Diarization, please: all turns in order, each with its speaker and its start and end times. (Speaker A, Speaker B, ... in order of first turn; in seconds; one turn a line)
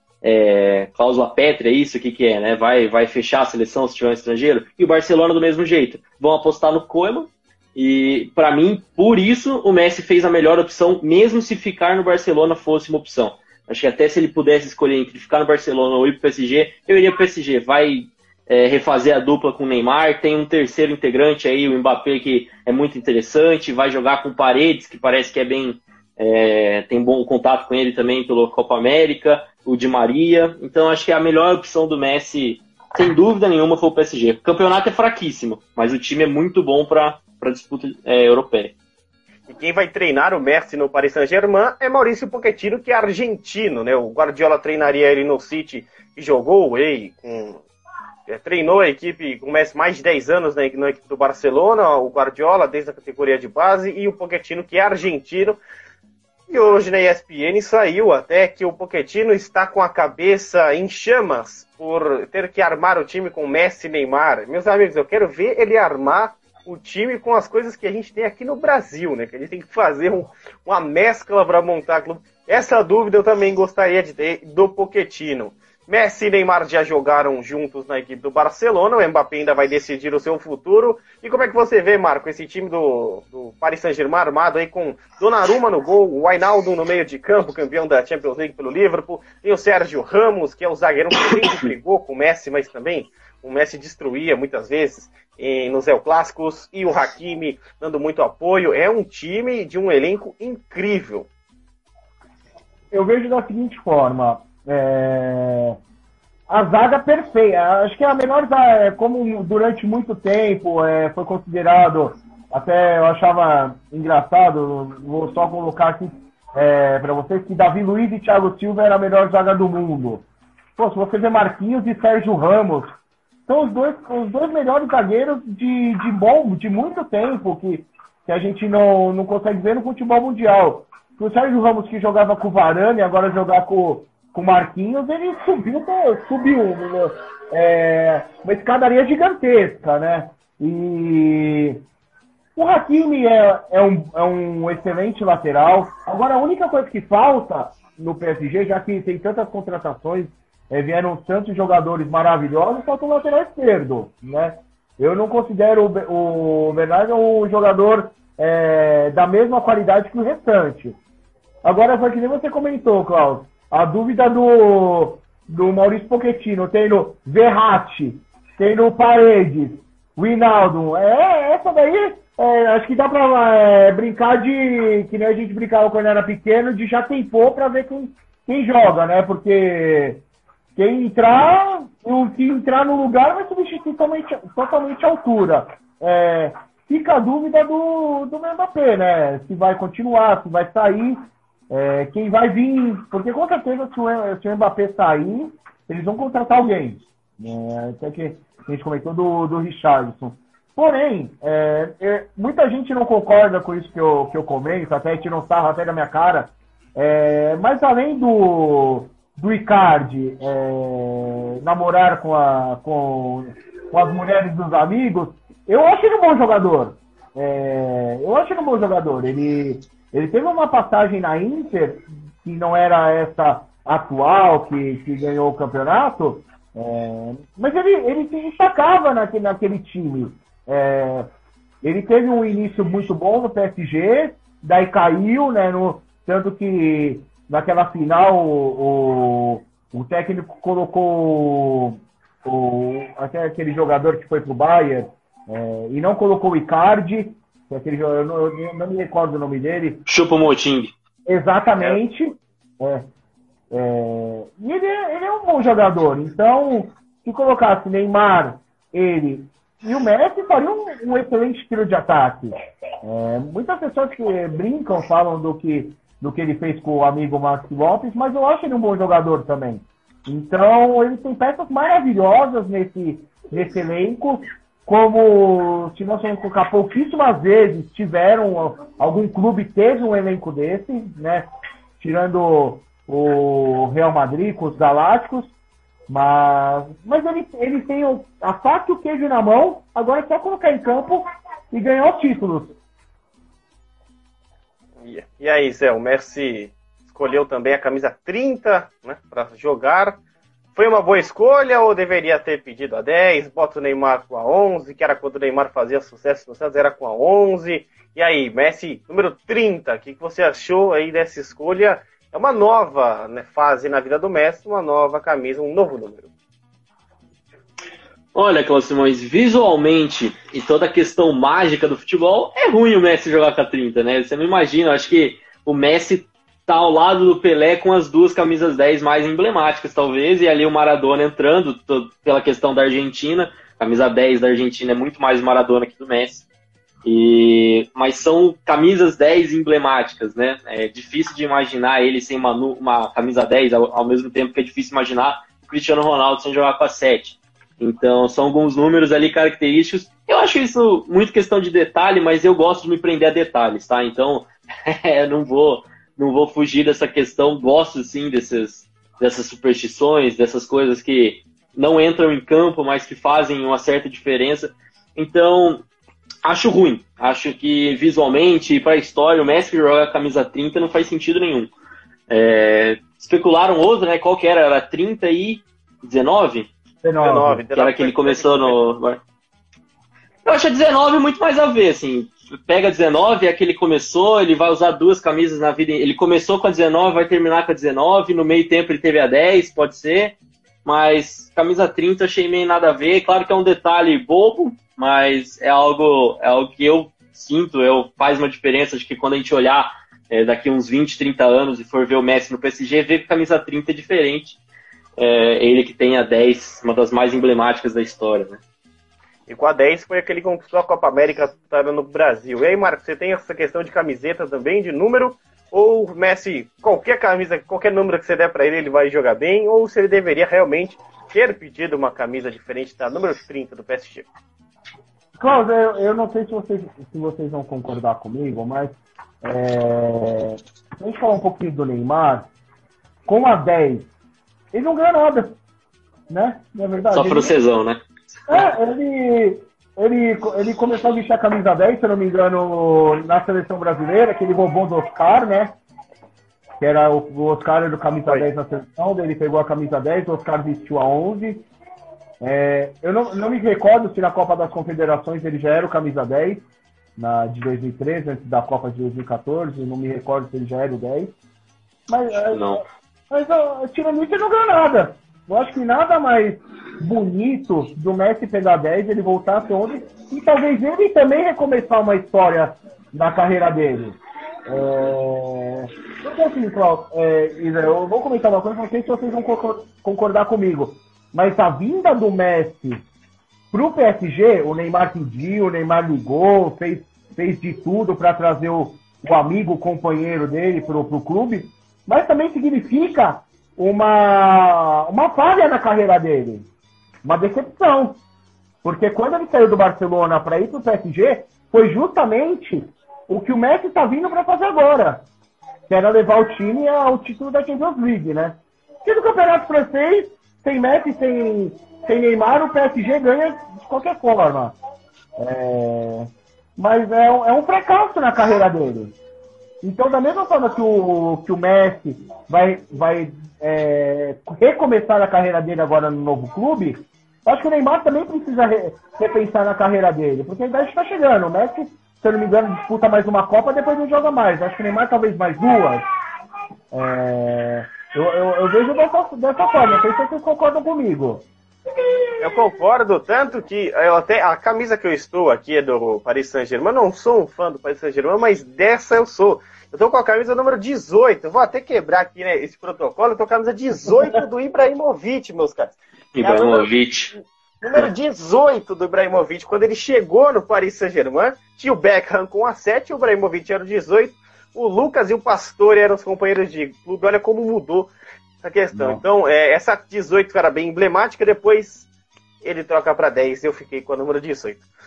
Speaker A: 0.2-38.7
Speaker B: 39.5-47.6
Speaker B: 48.3-55.6
Speaker B: 56.5-101.3
Speaker A: 91.4-91.7
Speaker C: 102.9-105.8
Speaker C: 106.5-120.2
Speaker C: 120.8-123.0
Speaker C: 123.5-141.8
Speaker C: 142.6-161.0
Speaker C: 161.6-180.2
Speaker C: 180.8-231.3
Speaker C: 231.8-250.1
Speaker A: 250.1-250.9
Speaker C: 251.3-253.1
Speaker C: 253.7-281.5
Speaker C: 282.0-285.5
Speaker C: 286.1-292.8
Speaker B: 295.0-300.2
Speaker B: 300.8-316.3
Speaker A: 318.4-336.5
Speaker A: 337.1-365.9
Speaker A: 366.4-371.7
Speaker A: 372.3-376.7
Speaker C: 377.0-377.6
Speaker B: 377.2-378.8
Speaker A: 377.7-379.2
Speaker A: 380.4-404.6
Speaker A: 405.2-408.6
Speaker B: 409.5-424.3
Speaker C: 425.4-432.5
Speaker C: 433.3-434.1
Speaker C: 434.7-435.6
Speaker C: 436.3-437.5
Speaker A: 437.1-438.7
Speaker C: 438.5-445.8
Speaker C: 446.8-451.6
Speaker C: 452.4-456.6
Speaker C: 457.2-461.3
Speaker C: 462.1-474.2
Speaker A: 462.5-462.8
Speaker C: 474.7-483.0
Speaker C: 483.7-496.7
Speaker C: 497.2-498.2
Speaker C: 498.8-505.3
Speaker C: 505.9-514.8
Speaker C: 515.4-519.1
Speaker C: 519.8-536.0
Speaker C: 536.9-541.5
Speaker B: 542.4-568.1
Speaker A: 556.4-557.3
Speaker B: 568.6-572.1
Speaker C: 568.9-569.2
Speaker B: 572.6-574.8